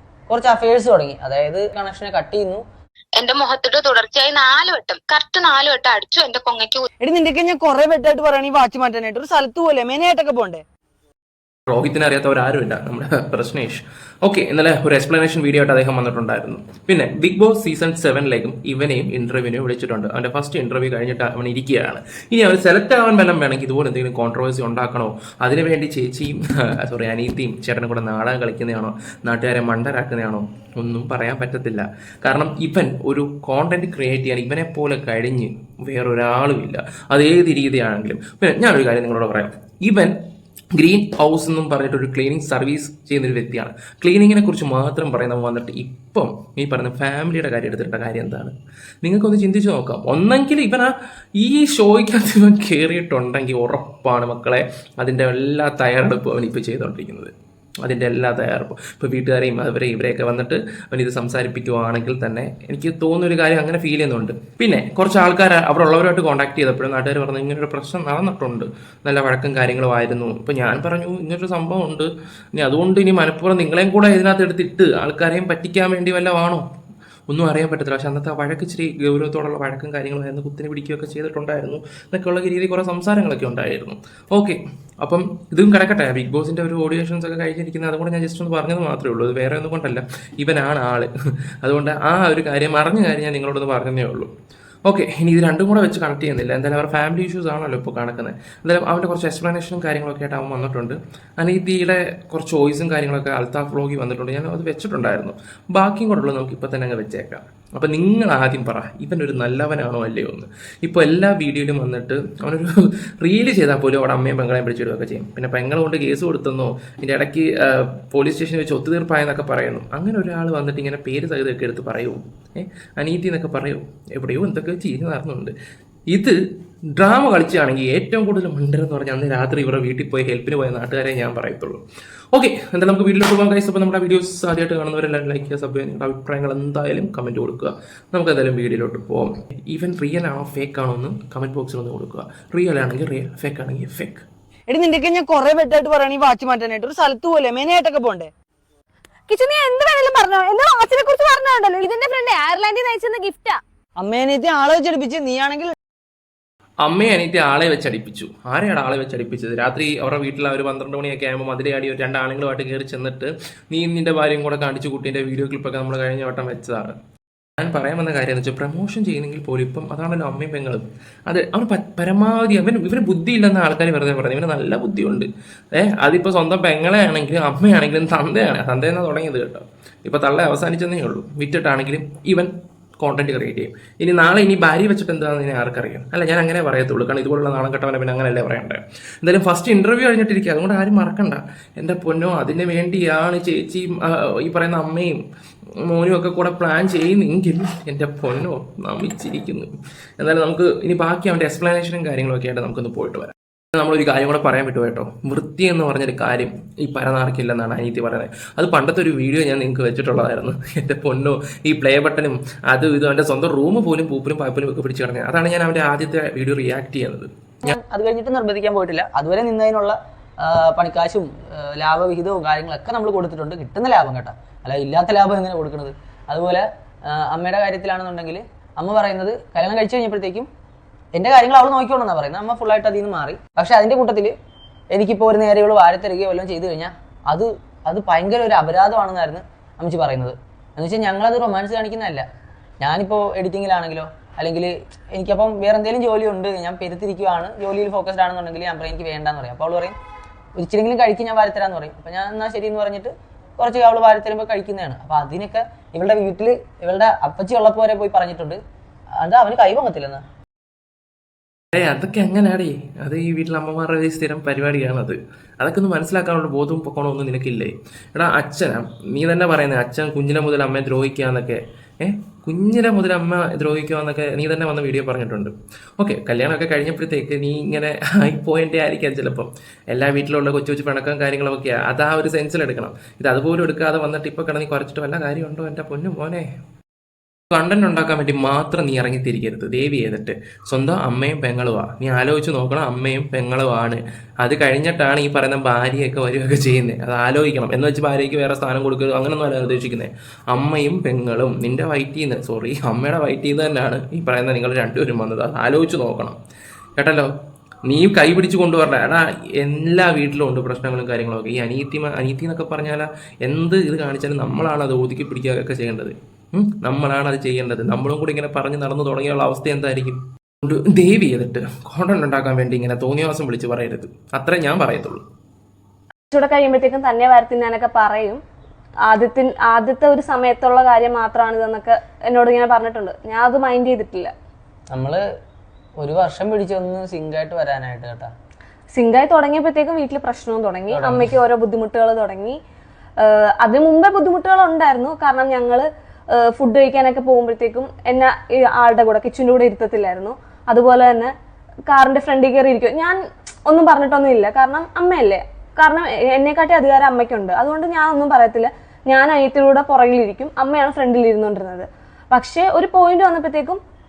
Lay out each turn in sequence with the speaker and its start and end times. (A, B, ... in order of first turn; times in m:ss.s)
0:00.3-0:02.6 A
0:03.2-0:06.9 B
0:07.0-0:10.6 C
0:11.7-0:40.1 D
0:40.7-1:16.6 D
1:17.3-1:31.1 D
1:31.6-1:34.3 D
1:34.8-2:05.5 D
2:06.9-2:11.8 D
2:12.3-2:24.3 D
2:24.7-2:28.3 C
2:29.3-2:33.6 E
2:34.0-2:35.7 A
2:36.8-2:47.0 D
2:47.6-3:15.2 D
3:15.8-3:37.8 D
3:37.7-3:50.5 A
3:51.1-3:54.4 A
3:54.9-4:02.3 A
4:02.8-4:10.0 A
4:10.6-4:18.6 A
4:19.2-4:20.2 A
4:21.7-4:46.5 D
4:47.5-5:06.4 D
5:07.0-5:07.3 D
5:07.9-5:25.2 D
5:26.3-5:28.4 E
5:29.1-5:34.3 E
5:34.9-5:35.2 A
5:36.0-5:38.3 A
5:38.9-5:42.6 E
5:40.9-5:41.3 A
5:43.2-5:51.3 E
5:51.9-6:03.8 E